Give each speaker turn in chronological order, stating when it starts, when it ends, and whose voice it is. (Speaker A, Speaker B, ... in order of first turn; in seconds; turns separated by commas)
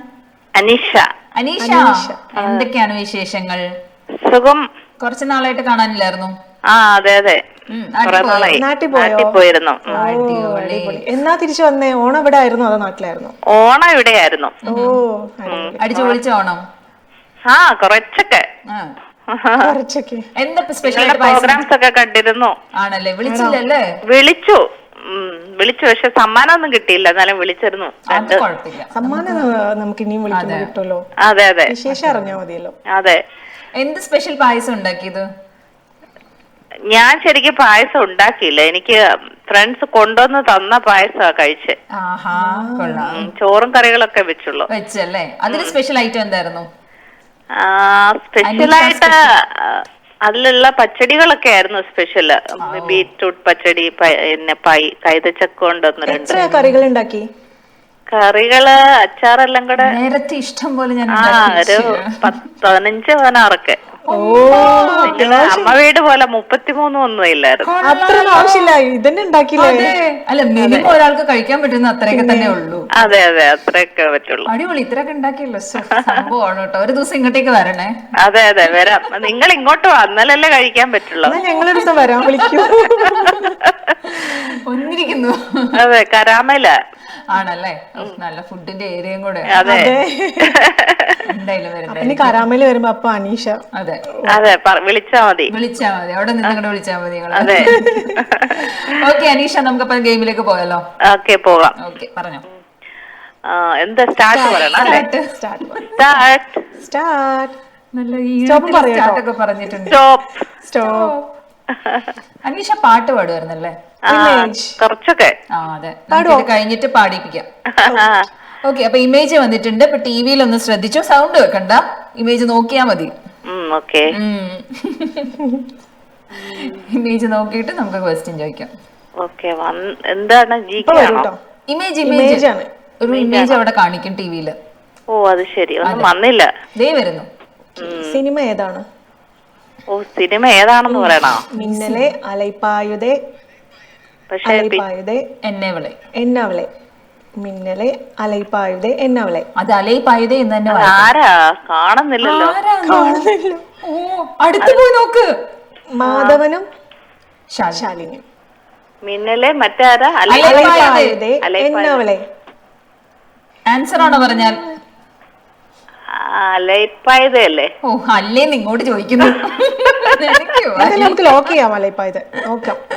Speaker A: 0.6-1.1, Speaker B: 1.4-3.6, Speaker C: 1.6-2.2, Speaker A: 2.4-2.7, Speaker A: 4.2-4.7, Speaker B: 5.0-6.3, Speaker A: 6.7-7.4, Speaker B: 7.7-8.6, Speaker A: 8.1-9.9, Speaker C: 8.5-9.4, Speaker C: 9.9-13.3, Speaker B: 9.9-11.0, Speaker A: 13.5-14.6, Speaker B: 14.7-15.0, Speaker C: 14.7-15.9, Speaker A: 15.5-16.1, Speaker B: 15.8-16.6, Speaker A: 17.5-18.5, Speaker B: 18.7-18.9, Speaker A: 19.3-19.7, Speaker C: 19.6-20.3, Speaker B: 20.4-21.6, Speaker A: 20.9-22.6, Speaker B: 22.8-23.8, Speaker C: 23.3-23.6, Speaker A: 24.1-28.4, Speaker B: 28.1-29.5, Speaker C: 28.9-31.1, Speaker B: 30.3-30.7, Speaker A: 31.2-31.8, Speaker C: 31.7-32.8, Speaker B: 31.9-32.4, Speaker A: 32.9-33.2, Speaker B: 33.8-35.3, Speaker A: 36.9-41.8, Speaker B: 42.0-43.3, Speaker C: 42.4-43.2, Speaker A: 43.1-44.7, Speaker B: 44.7-46.7, Speaker A: 47.6-56.6, Speaker B: 48.4-49.2, Speaker B: 52.6-53.1, Speaker C: 56.1-57.3, Speaker B: 56.5-56.8, Speaker A: 58.1-60.0, Speaker B: 59.8-62.3, Speaker A: 61.1-63.8, Speaker B: 64.1-65.4, Speaker C: 64.1-65.8, Speaker A: 64.5-67.7, Speaker B: 67.6-68.8, Speaker C: 67.8-70.0, Speaker B: 69.6-73.0, Speaker C: 70.6-70.9, Speaker C: 72.1-72.6, Speaker A: 73.0-74.5, Speaker B: 74.5-78.0, Speaker A: 78.2-81.4, Speaker C: 81.2-83.6, Speaker B: 83.0-83.3, Speaker B: 84.1-85.8, Speaker A: 85.8-86.8, Speaker B: 87.3-89.7, Speaker A: 89.5-89.9, Speaker C: 89.6-90.6, Speaker A: 90.5-91.2, Speaker B: 91.3-92.4, Speaker C: 91.9-93.6, Speaker B: 93.8-94.0, Speaker C: 94.1-94.4, Speaker A: 94.3-95.5, Speaker B: 95.5-97.8, Speaker A: 97.3-98.6, Speaker C: 97.6-98.2, Speaker B: 98.5-100.8, Speaker A: 101.1-101.8, Speaker B: 101.8-102.5, Speaker A: 103.5-105.0, Speaker C: 104.2-106.0, Speaker B: 104.7-105.3, Speaker A: 106.0-106.6, Speaker C: 106.8-107.6, Speaker B: 108.0-110.0, Speaker C: 108.5-109.2, Speaker A: 109.9-110.5, Speaker C: 110.7-111.2, Speaker B: 110.8-111.3, Speaker A: 111.7-112.1, Speaker B: 112.5-113.8, Speaker A: 114.1-115.3, Speaker C: 114.1-114.8, Speaker B: 115.5-117.5, Speaker C: 116.1-116.5, Speaker A: 117.8-118.3, Speaker C: 117.8-118.2, Speaker B: 118.6-123.1, Speaker A: 123.5-124.1, Speaker B: 124.1-125.4, Speaker A: 126.4-126.9, Speaker B: 126.4-128.7, Speaker A: 129.2-131.3, Speaker C: 130.8-131.4, Speaker B: 131.7-132.5, Speaker C: 132.0-132.7, Speaker B: 133.0-134.6, Speaker A: 133.1-133.6, Speaker A: 135.1-136.5, Speaker B: 135.8-136.1, Speaker B: 136.8-137.3, Speaker C: 137.8-138.9, Speaker A: 137.8-138.2, Speaker A: 139.9-141.5, Speaker C: 140.9-143.2, Speaker B: 141.5-142.1, Speaker A: 144.3-144.8, Speaker C: 144.5-145.3, Speaker B: 145.4-146.0, Speaker C: 146.2-146.7, Speaker C: 147.4-149.5, Speaker B: 149.6-151.1, Speaker A: 150.7-152.6, Speaker B: 152.2-153.3, Speaker C: 152.8-153.7, Speaker B: 153.8-155.3, Speaker C: 155.9-156.7, Speaker A: 156.0-156.4, Speaker B: 157.5-157.9, Speaker C: 157.7-158.2, Speaker A: 159.1-162.1, Speaker B: 160.3-161.2, Speaker C: 160.4-162.2, Speaker B: 163.7-164.7, Speaker A: 166.1-167.7, Speaker B: 167.8-171.3, Speaker C: 170.8-172.8